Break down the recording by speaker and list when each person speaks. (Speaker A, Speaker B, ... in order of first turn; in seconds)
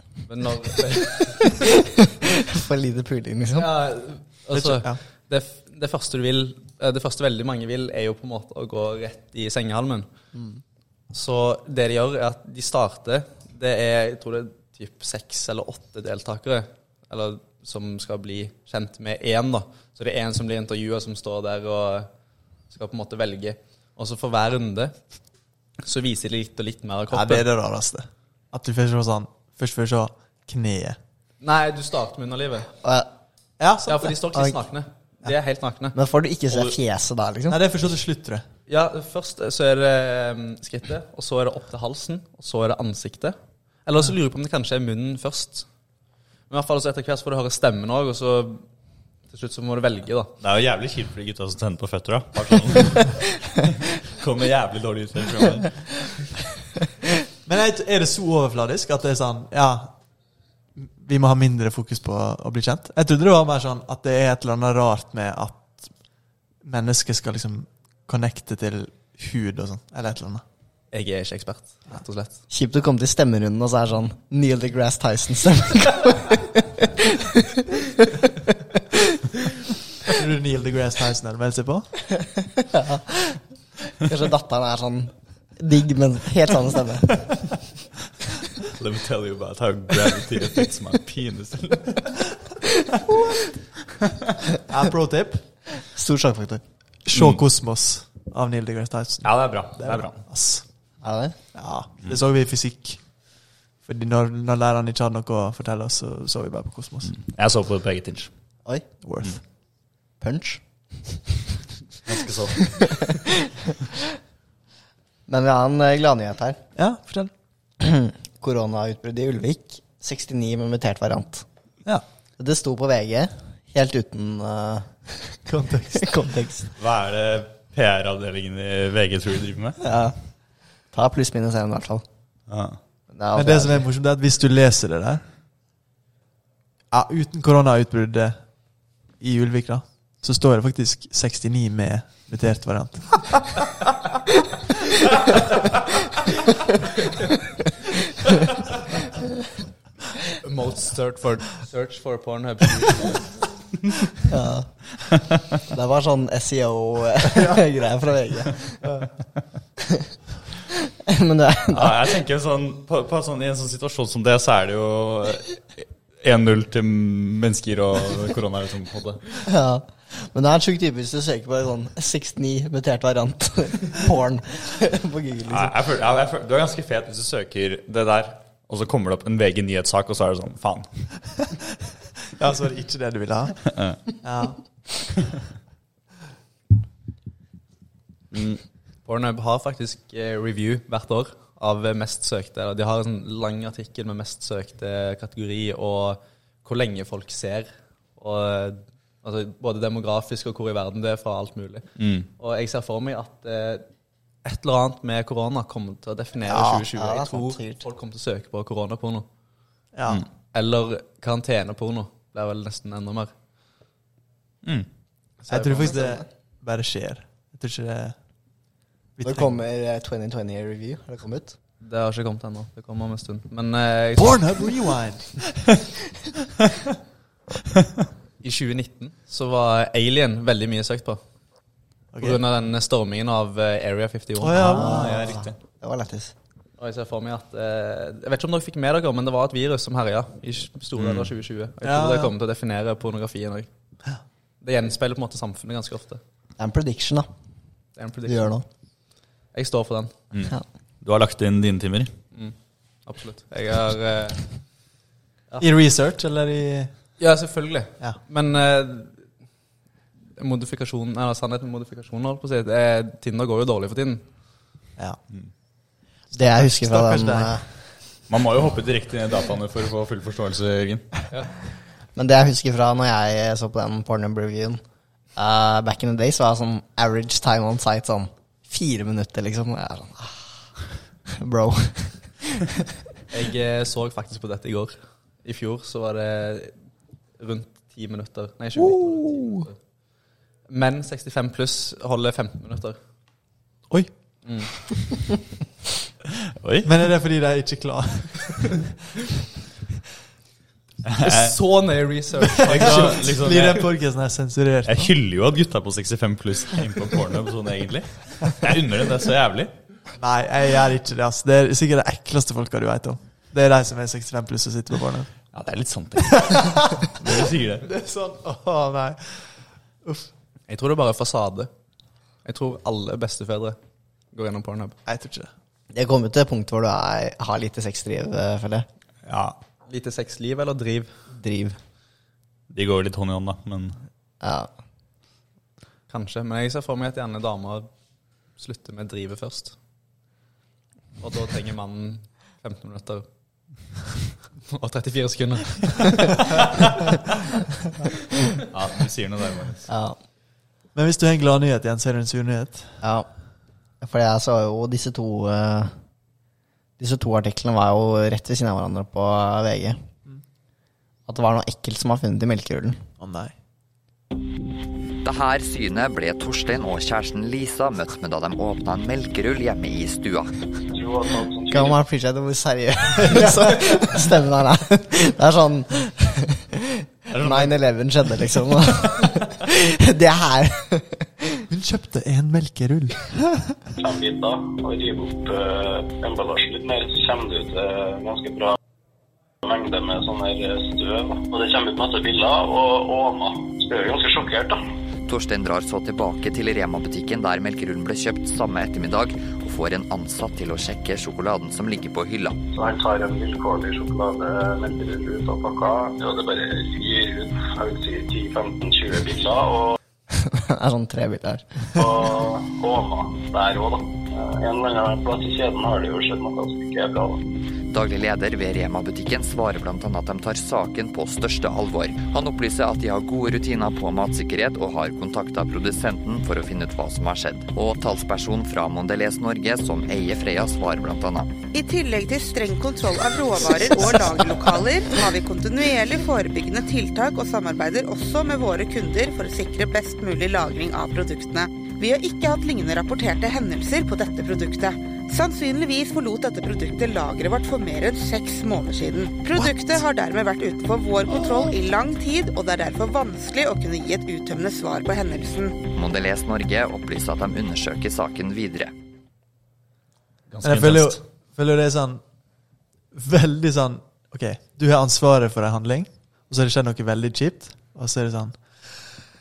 Speaker A: 0.2-1.3, 3.6-10.1, 11.1-22.1, 22.7-25.0, 25.8-27.5, 31.4-32.7, 33.9-36.0, 38.7-45.7, 46.5-48.7, 49.3-50.3, 70.9-72.4, 150.4-153.3, 189.1-201.9, 202.4-203.9, 204.4-209.3, 210.5-213.3, 221.8-224.5, 228.4-231.2, 232.2-234.8, 236.8-243.7, 244.6-246.2, 248.0-248.6, 249.5-250.1, 253.1-254.4, 257.2-259.3, 260.4-264.2, 283.3-286.7, 287.4-289.8, 290.7-293.0, 294.4-294.7, 301.2-303.6, 320.7-321.7, 322.4-323.8, 324.3-325.0, 329.9-331.1, 336.1-337.9, 338.6-339.8, 341.2-343.3, 344.6-346.3
Speaker B: 2.2-3.7, 10.3-10.6, 32.8-33.1, 36.0-37.6, 72.5-79.2, 82.6-83.4, 83.9-87.5, 95.9-96.6, 101.0-101.4, 110.2-110.6, 112.8-113.5, 115.3-116.6, 117.8-121.5, 122.4-125.4, 125.9-126.7, 129.8-130.2, 130.9-132.0, 133.1-133.8, 154.3-154.8, 155.6-158.8, 161.0-162.1, 169.4-175.8, 206.8-207.8, 215.5-216.2, 219.2-221.5, 234.6-236.3, 246.6-247.3, 248.3-248.6, 266.3-267.6, 272.1-274.8, 275.4-280.6, 281.3-282.8, 325.9-328.9, 331.3-331.8, 334.4-334.7, 349.9-350.2, 353.0-353.3, 354.0-355.9, 357.0-360.0, 361.3-363.0, 371.7-381.6, 410.3-411.9
Speaker C: 4.5-5.0, 27.1-31.0, 33.6-34.5, 37.5-38.5, 57.5-59.9, 60.8-65.9, 66.6-70.4, 80.1-81.9, 94.7-95.4, 97.1-100.7, 101.5-103.0, 103.8-107.1, 109.0-109.4, 116.8-117.3, 125.5-126.3, 133.3-135.2, 136.9-138.4, 139.2-143.6, 157.3-157.6, 182.4-183.7, 184.2-184.6, 206.5-206.8, 209.9-210.2, 215.5-218.2, 219.2-219.6, 224.2-225.6, 232.1-232.4, 234.4-235.4, 241.8-242.3, 255.6-256.9, 266.3-267.6, 288.8-289.6, 296.8-298.9, 302.6-305.1, 310.2-315.3, 316.4-316.9, 317.8-320.3, 325.1-325.5, 350.9-352.9, 363.2-363.5, 373.2-374.2, 381.7-383.5, 460.6-462.2, 463.1-469.2
Speaker D: 36.5-36.8, 50.4-56.1, 88.7-92.2, 97.1-97.4, 99.2-100.2, 107.1-108.3, 112.1-113.0, 126.8-129.8, 132.5-132.8, 161.7-169.2, 175.5-180.9, 188.3-188.6, 202.0-202.3, 234.8-235.6, 241.0-241.3, 250.3-252.1, 268.3-271.1, 296.5-296.9, 301.1-301.6, 302.6-303.9, 304.9-309.7, 315.5-317.9, 329.3-329.6, 332.7-334.0, 348.7-349.9, 377.3-377.8, 460.5-461.2
Speaker E: 365.2-370.7, 395.3-402.6, 417.9-431.6, 455.9-458.9
Speaker F: 370.9-372.0, 384.0-388.8, 389.6-394.8, 402.7-409.9, 411.9-417.4
Speaker G: 431.7-455.8